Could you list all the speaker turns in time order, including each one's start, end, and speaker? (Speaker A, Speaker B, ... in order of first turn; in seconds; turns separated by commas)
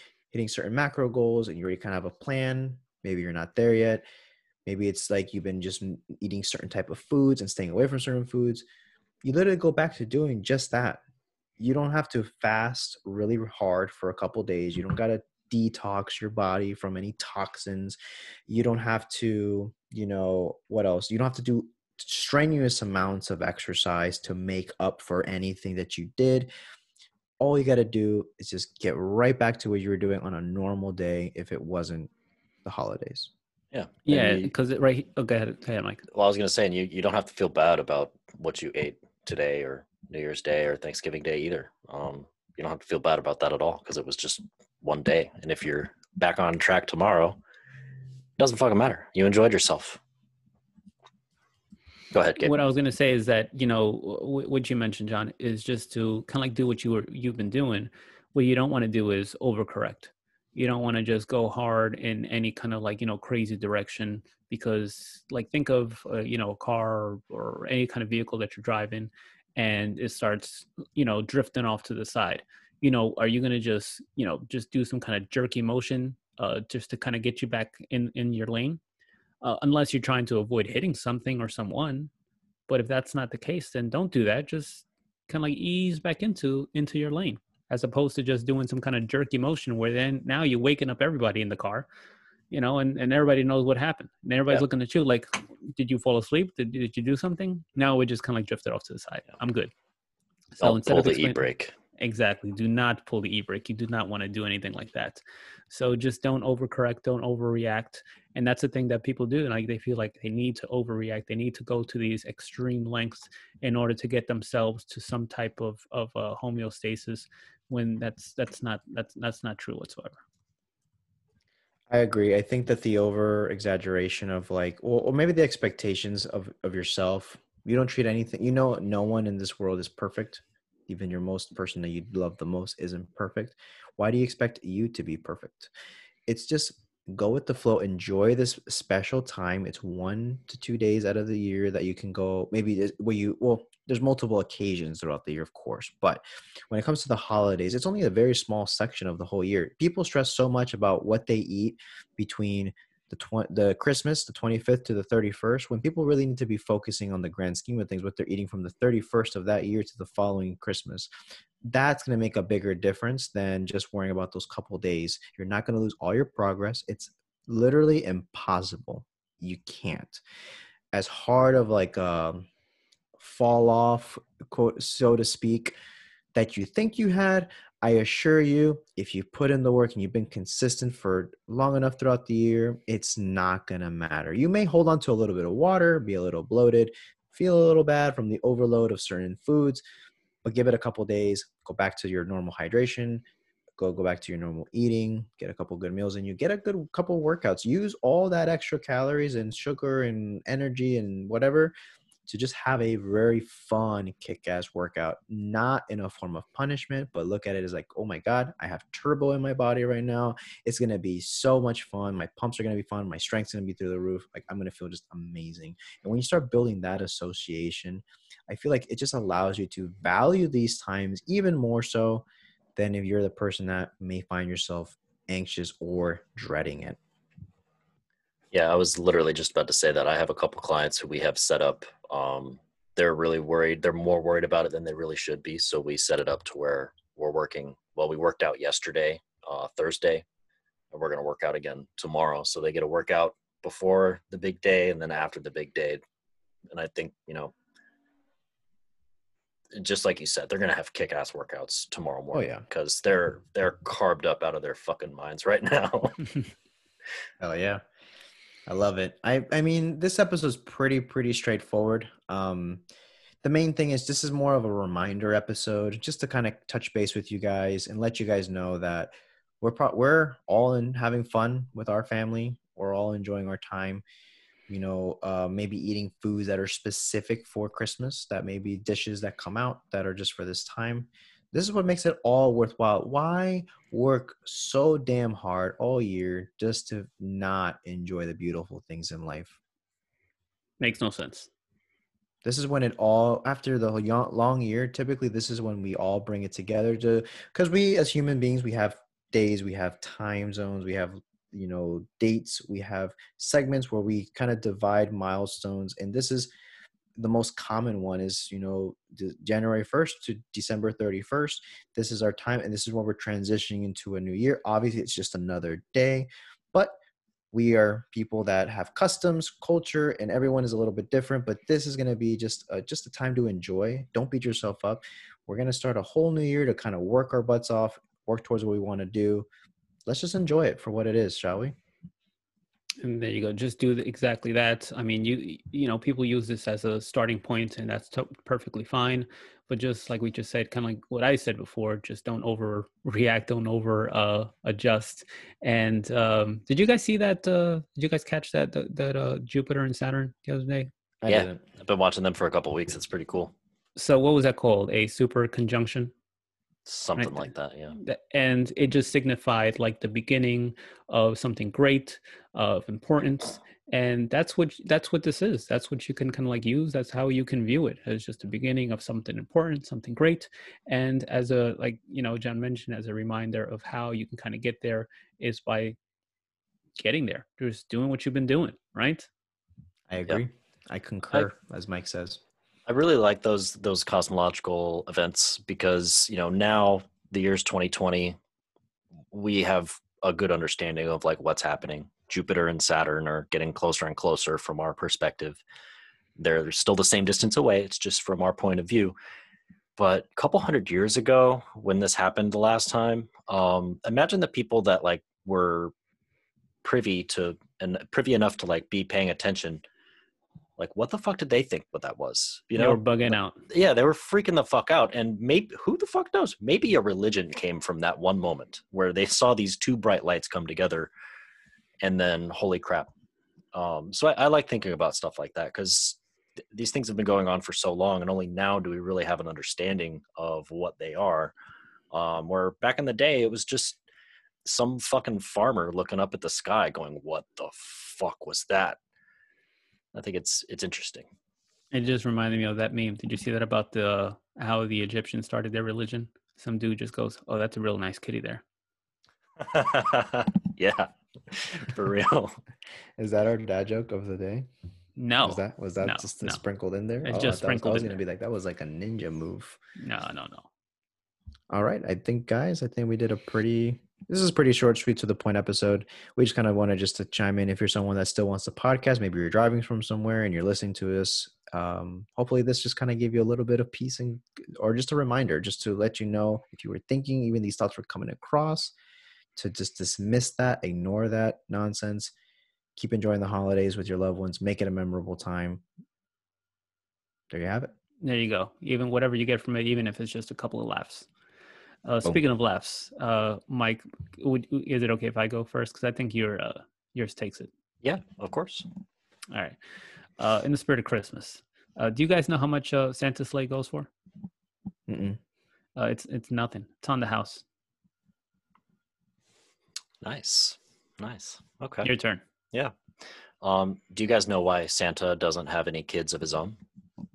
Speaker A: 0.3-4.0, Speaker A: 4.7-8.6, Speaker A: 9.2-11.0, Speaker A: 11.6-26.5, Speaker A: 27.4-32.1, Speaker A: 32.6-33.3, Speaker B: 33.7-34.5, Speaker C: 34.0-36.0, Speaker B: 36.1-47.4, Speaker B: 48.4-50.0, Speaker B: 52.1-52.5, Speaker C: 52.4-78.8, Speaker C: 79.4-82.1, Speaker C: 82.7-91.9, Speaker C: 92.5-99.7, Speaker C: 100.6-101.5, Speaker B: 100.6-101.7, Speaker C: 102.0-120.2, Speaker A: 121.9-135.7, Speaker A: 136.3-161.1, Speaker A: 161.6-170.2, Speaker A: 170.9-172.5, Speaker A: 173.2-175.8, Speaker A: 176.3-189.8, Speaker A: 190.4-193.2, Speaker A: 193.8-201.7, Speaker A: 202.3-227.0, Speaker B: 228.5-240.2, Speaker B: 240.9-246.0, Speaker B: 246.7-247.5, Speaker B: 249.7-256.2, Speaker A: 252.3-252.6, Speaker A: 257.4-257.8, Speaker A: 258.7-262.8, Speaker A: 263.4-274.0, Speaker A: 274.7-289.6, Speaker C: 290.8-291.5, Speaker A: 292.4-306.5, Speaker A: 307.1-317.0, Speaker A: 317.5-329.5, Speaker A: 330.1-331.7, Speaker C: 333.0-350.9, Speaker A: 351.2-351.6, Speaker B: 351.2-353.5, Speaker C: 353.9-356.1, Speaker B: 356.9-357.9, Speaker C: 357.2-357.4, Speaker C: 357.9-376.0, Speaker C: 377.0-379.3, Speaker A: 380.1-382.4, Speaker B: 382.9-388.4, Speaker B: 389.3-395.6, Speaker B: 396.4-399.1, Speaker B: 400.0-405.9, Speaker B: 406.8-409.8, Speaker B: 410.8-421.1, Speaker C: 412.8-413.6, Speaker B: 422.0-423.1, Speaker B: 423.7-426.2, Speaker B: 426.7-431.5, Speaker B: 432.1-434.0, Speaker B: 434.6-439.0, Speaker B: 440.1-441.3, Speaker C: 441.9-448.6, Speaker B: 449.6-452.6, Speaker A: 453.2-454.7, Speaker C: 455.2-456.6, Speaker A: 455.4-459.8, Speaker C: 457.2-458.2, Speaker C: 460.0-460.7, Speaker A: 461.7-478.9, Speaker A: 479.6-482.3, Speaker A: 482.9-485.8, Speaker A: 487.5-487.9, Speaker C: 488.2-491.3, Speaker C: 492.0-497.7, Speaker B: 498.0-498.9, Speaker C: 499.5-499.8, Speaker C: 500.4-504.1, Speaker A: 505.1-505.4, Speaker C: 505.9-507.6, Speaker B: 510.2-512.1, Speaker C: 512.0-512.4, Speaker B: 513.6-516.8